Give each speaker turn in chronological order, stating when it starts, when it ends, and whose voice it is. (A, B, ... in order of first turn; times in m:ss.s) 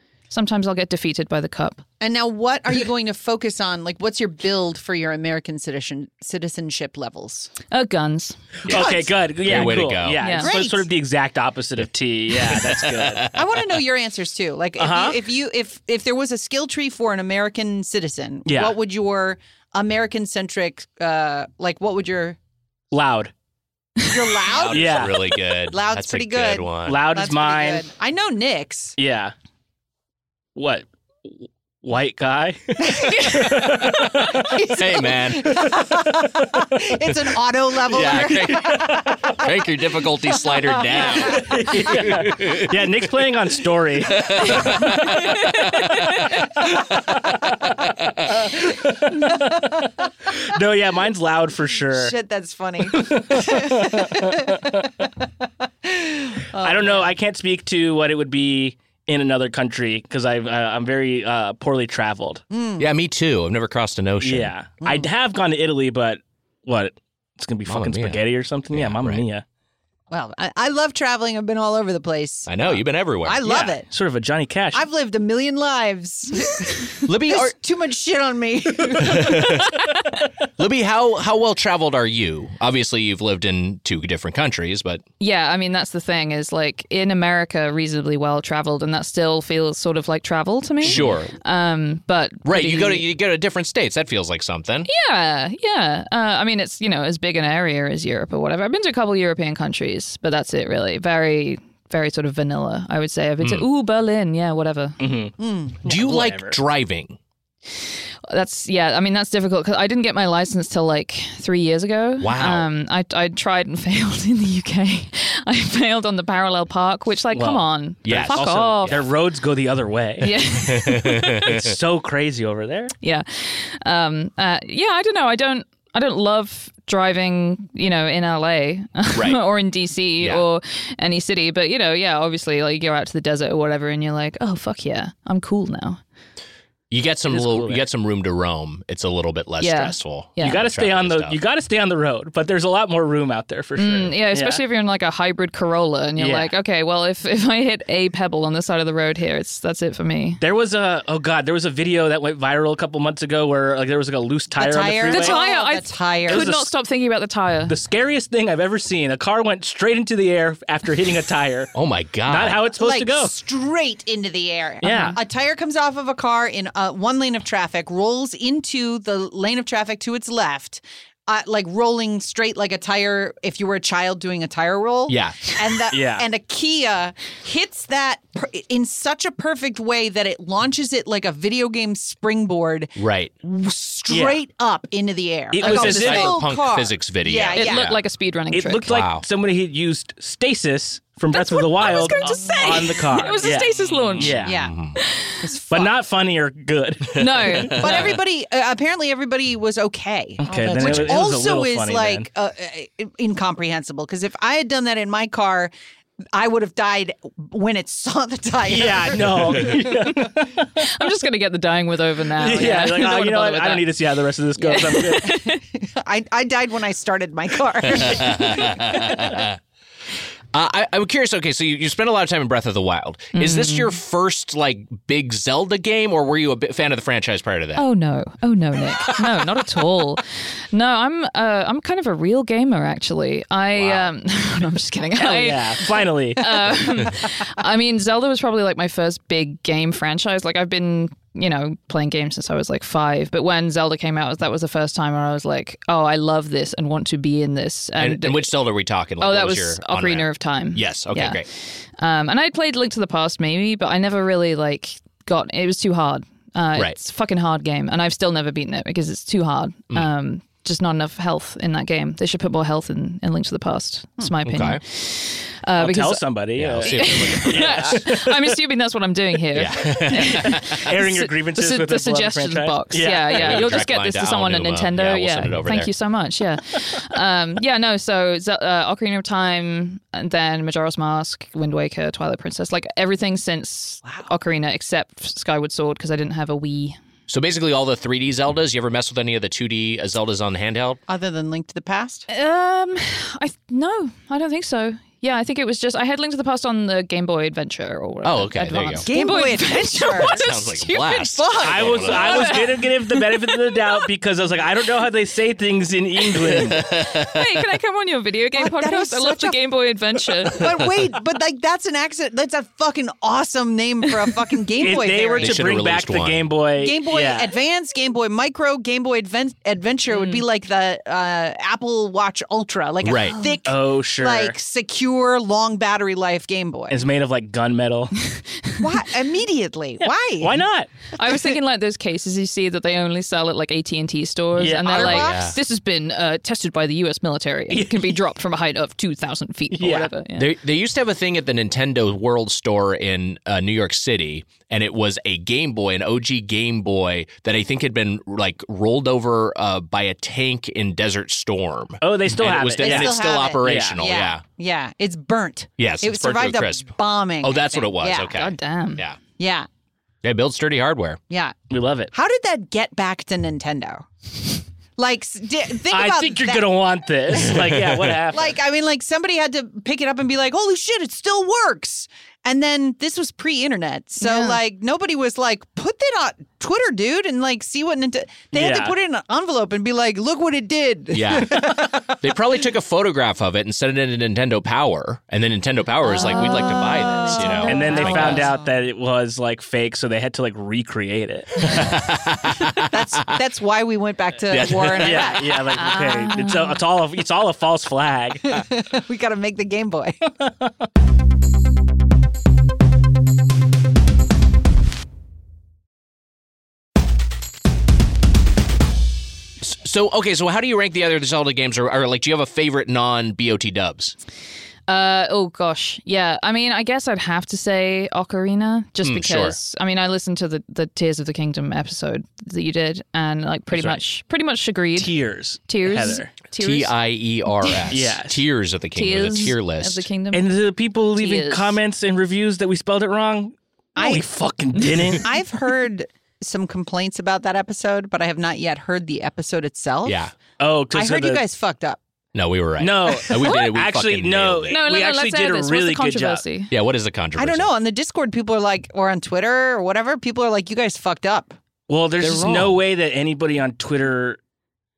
0:00.3-0:01.8 A
0:02.0-0:07.5 B
0:07.7-0:08.4 A
0:08.6-0:10.2 C
0:08.6-0:13.3 D
0:08.7-0:09.7 B
0:10.2-0:10.5 A
0:10.4-0:10.8 B
0:12.4-0:13.5 C
0:13.3-0:22.4 B
0:14.8-0:15.2 D
0:18.4-0:18.8 D
0:22.9-0:23.3 D
0:24.0-0:28.9 B
0:24.4-0:27.0 C
0:24.7-0:25.2 D
0:26.8-0:27.8 D
0:29.0-0:29.3 D
0:30.6-0:34.6 D
0:32.8-0:39.5 B
0:34.7-0:35.6 C
0:37.8-0:42.9 C
0:40.9-0:41.4 B
0:41.2-0:45.1 D
0:44.1-0:46.4 C
0:47.8-0:48.5 C
0:48.6-0:49.6 D
0:50.3-0:52.1 D
0:51.9-0:54.7 B
0:52.9-0:54.9 D
0:55.8-0:57.1 B
0:56.6-1:02.4 D
1:02.5-1:02.9 B
1:02.8-1:04.5 C
1:04.2-1:09.4 D
1:04.8-1:05.1 B
1:07.6-1:08.2 C
1:08.7-1:09.2 C
1:10.1-1:13.9 B
1:12.5-1:13.4 C
1:13.4-1:14.8 D
1:14.7-1:19.7 B
1:17.0-1:17.5 C
1:19.0-1:19.8 C
1:20.6-1:25.0 C
1:25.2-1:33.0 A
1:30.8-1:31.3 C
1:32.4-1:34.9 C
1:34.9-1:45.0 A
1:43.4-1:43.6 C
1:45.0-1:46.6 D
1:45.4-1:45.8 B
1:45.8-1:47.2 C
1:48.3-1:59.0 A
1:52.2-1:52.7 C
1:57.3-2:00.4 D
1:58.0-1:59.1 C
2:00.2-2:01.4 A
2:00.6-2:01.7 C
2:01.4-2:02.9 D
2:03.0-2:16.0 A
2:09.1-2:09.4 C
2:16.9-2:21.4 C
2:17.3-2:17.8 D
2:19.6-2:20.6 A
2:20.4-2:24.6 D
2:23.8-2:30.4 A
2:26.2-2:26.5 D
2:30.4-2:35.4 D
2:34.6-2:36.5 B
2:35.0-2:37.7 A
2:36.3-2:36.7 D
2:37.7-2:41.7 D
2:41.7-2:42.6 C
2:42.2-2:43.3 D
2:42.8-3:07.8 B
2:44.8-2:45.2 D
2:44.8-2:45.2 A
2:55.1-2:55.4 C
2:55.9-2:56.2 D
3:03.0-3:03.3 C
3:04.1-3:04.4 D
3:05.5-3:06.4 D
3:05.6-3:08.0 C
3:07.5-3:08.9 A
3:08.5-3:14.6 D
3:08.9-3:09.2 C
3:11.3-3:14.4 A
3:11.8-3:13.6 B
3:14.2-3:15.0 C
3:14.4-3:14.7 B
3:15.0-3:15.4 A
3:15.4-3:15.9 B
3:15.7-3:18.2 D
3:17.1-3:17.8 A
3:17.2-3:18.1 C
3:17.7-3:25.7 B
3:20.4-3:22.2 D
3:20.8-3:21.2 C
3:26.3-3:30.0 B
3:28.6-3:30.9 D
3:30.8-3:33.9 A
3:32.4-3:35.4 D
3:34.6-3:35.6 A
3:35.3-3:39.4 B
3:37.9-3:39.6 C
3:40.5-3:47.8 C
3:43.3-3:44.0 A
3:47.8-4:08.5 A
3:53.7-3:54.1 C
3:55.2-3:56.8 D
4:08.0-4:11.5 C
4:09.2-4:26.2 A
4:24.4-4:24.8 C
4:25.8-4:28.5 D
4:26.6-4:28.0 C
4:26.8-4:47.0 A
4:29.5-4:30.8 C
4:30.2-4:33.7 D
4:33.3-4:35.9 C
4:47.3-4:51.0 C
4:51.1-4:52.2 B
4:52.3-5:01.4 A
4:58.2-4:59.1 C
4:59.1-5:00.5 B
5:00.0-5:02.6 C
5:01.3-5:02.6 B
5:01.6-5:06.8 D
5:02.1-5:04.0 A
5:06.5-5:07.6 C
5:06.7-5:10.7 A
5:08.6-5:09.6 B
5:10.4-5:15.7 B
5:14.8-5:17.5 D
5:15.4-5:16.5 C
5:16.8-5:27.0 B
5:20.1-5:20.4 A
5:23.0-5:23.4 C
5:23.6-5:24.5 D
5:26.9-5:28.2 D
5:28.3-5:28.8 A
5:28.8-5:30.6 B
5:30.0-5:30.9 D
5:31.2-5:40.5 A
5:34.6-5:35.2 D
5:34.8-5:35.5 B
5:35.0-5:35.6 C
5:37.7-5:38.2 D
5:39.7-5:40.1 D
5:40.4-5:54.4 C
5:52.0-5:54.0 D
5:52.8-5:58.4 B
5:55.8-5:56.9 C
5:57.4-5:59.2 C
5:58.3-5:59.0 A
5:59.4-5:59.7 B
6:00.2-6:01.2 C
6:01.3-6:01.5 B
6:01.7-6:02.1 D
6:02.1-6:06.7 B
6:05.9-6:08.6 D
6:07.5-6:08.1 C
6:08.3-6:22.1 B
6:14.2-6:14.6 A
6:18.5-6:19.0 D
6:21.1-6:28.5 C
6:26.0-6:28.5 A
6:26.1-6:28.6 B
6:27.6-6:31.7 D
6:31.6-6:33.1 C
6:32.8-6:35.7 B
6:34.5-6:35.4 C
6:35.0-6:38.6 D
6:35.7-6:36.8 A
6:38.5-6:40.2 B
6:49.6-6:54.2 C
6:54.9-7:05.1 A
6:59.0-6:59.6 C
7:03.7-7:04.0 D
7:05.0-7:06.3 D
7:05.7-7:06.9 A
7:06.6-7:10.1 C
7:07.6-7:07.9 A
7:07.9-7:08.4 D
7:08.9-7:10.5 A
7:10.3-7:15.3 D
7:11.2-7:11.8 A
7:14.0-7:14.2 B
7:15.2-7:20.2 B
7:20.0-7:20.3 C
7:20.6-7:21.4 D
7:20.9-7:22.0 B
7:22.3-7:24.8 C
7:22.8-7:26.4 D
7:24.7-7:26.7 A
7:26.7-7:27.7 C
7:27.4-7:31.6 B
7:31.9-7:34.4 D
7:32.2-7:32.8 C